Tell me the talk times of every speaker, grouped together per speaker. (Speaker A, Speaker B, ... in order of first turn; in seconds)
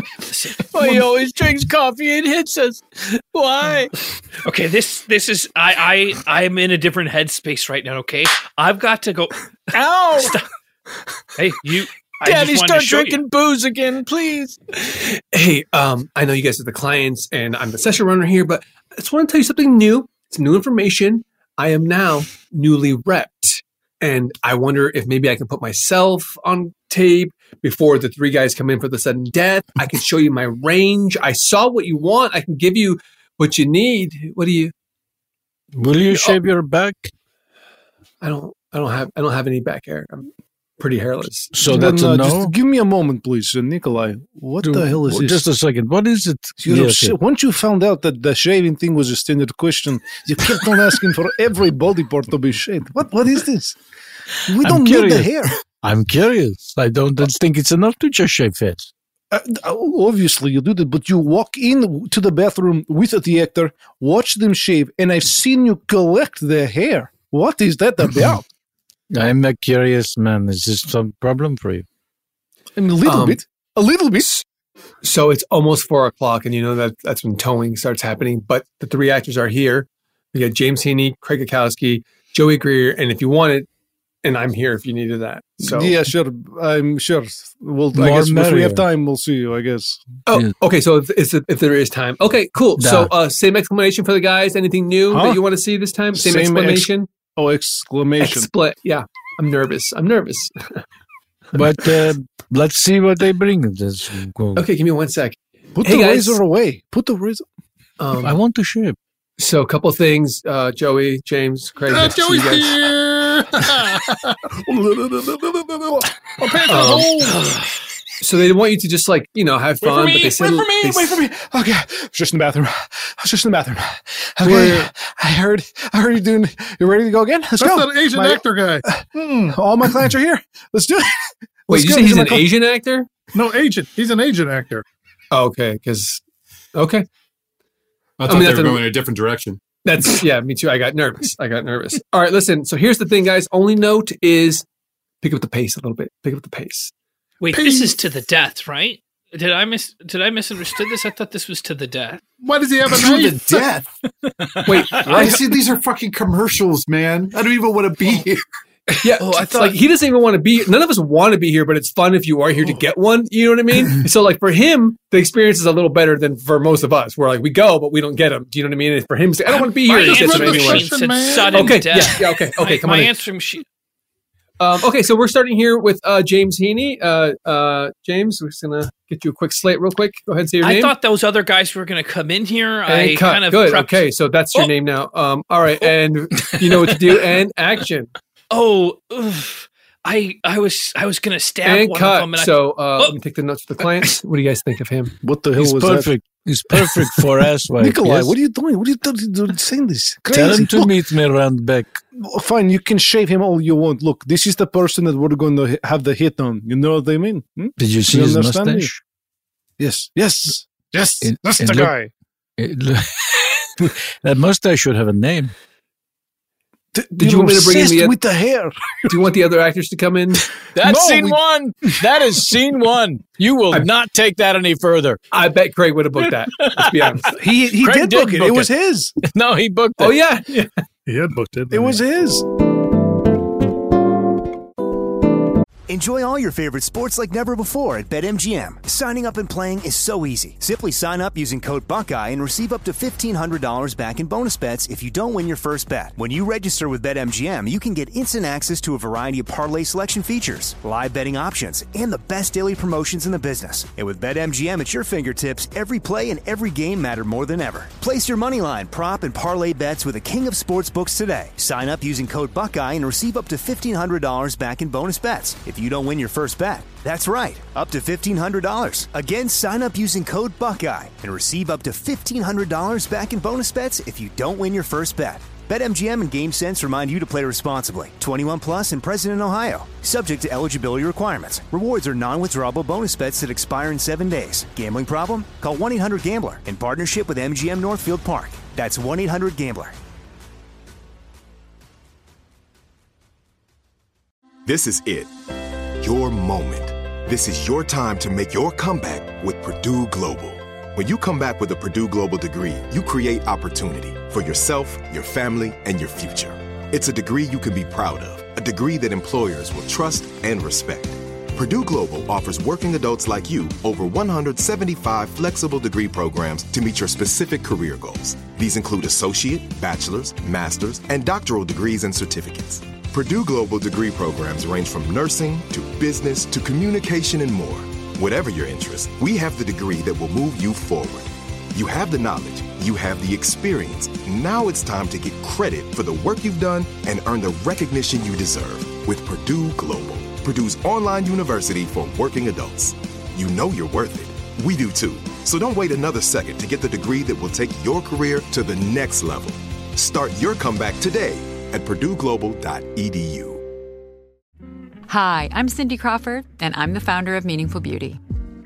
Speaker A: 0.3-0.7, 4.4-10.4, 11.4-13.2, 147.4-152.2, 159.2-159.7, 169.9-173.6, 180.6-184.0, 188.5-193.2
Speaker B: 0.7-3.9, 9.7-10.4, 12.2-14.5, 35.7-37.1, 41.5-42.5, 44.6-47.2, 54.6-58.9, 69.1-71.8, 87.9-88.8, 92.8-93.1, 101.5-104.7, 108.2-109.0, 154.4-155.3, 186.5-187.0, 195.6-198.3, 200.3-202.0, 207.8-209.0, 211.2-211.9, 212.6-215.5, 220.7-225.2, 226.2-227.2, 227.7-230.2
Speaker C: 14.7-34.7, 38.2-41.9, 73.0-73.4, 74.2-74.4, 75.0-83.7, 84.2-86.0, 90.3-97.1, 98.2-100.8, 104.5-106.4, 108.0-108.3, 109.4-112.8, 116.7-117.2, 118.2-121.2, 124.4-124.8, 131.7-133.1, 135.3-136.2, 136.7-137.1, 138.3-138.8, 139.8-144.6, 145.2-146.9, 154.7-155.5, 159.0-170.9, 171.5-173.1, 174.6-180.9, 182.8-188.1, 191.6-195.1, 217.1-218.2, 219.1-220.5, 225.3-227.3, 230.0-230.8
Speaker D: 41.6-45.5, 46.6-53.8, 54.5-55.5, 59.3-68.4, 72.8-74.3, 85.6-90.0, 95.1-95.4, 96.1-98.5, 105.8-107.4, 114.6-117.1, 119.8-132.5, 195.2-196.1, 197.8-201.0, 202.2-208.9, 209.8-212.1, 216.9-219.1, 220.8-221.4, 227.3-229.2, 231.7-232.4
Speaker E: 111.9-114.3, 116.4-117.3, 119.8-120.2, 127.6-129.6, 133.3-134.8, 147.5-147.9, 152.4-153.4, 169.8-171.8, 231.1-232.0
Speaker F: 138.2-139.6, 153.0-153.8, 155.1-158.4
Speaker G: 235.9-289.9
Speaker H: 294.6-295.3, 296.0-353.6
Speaker I: 355.1-358.2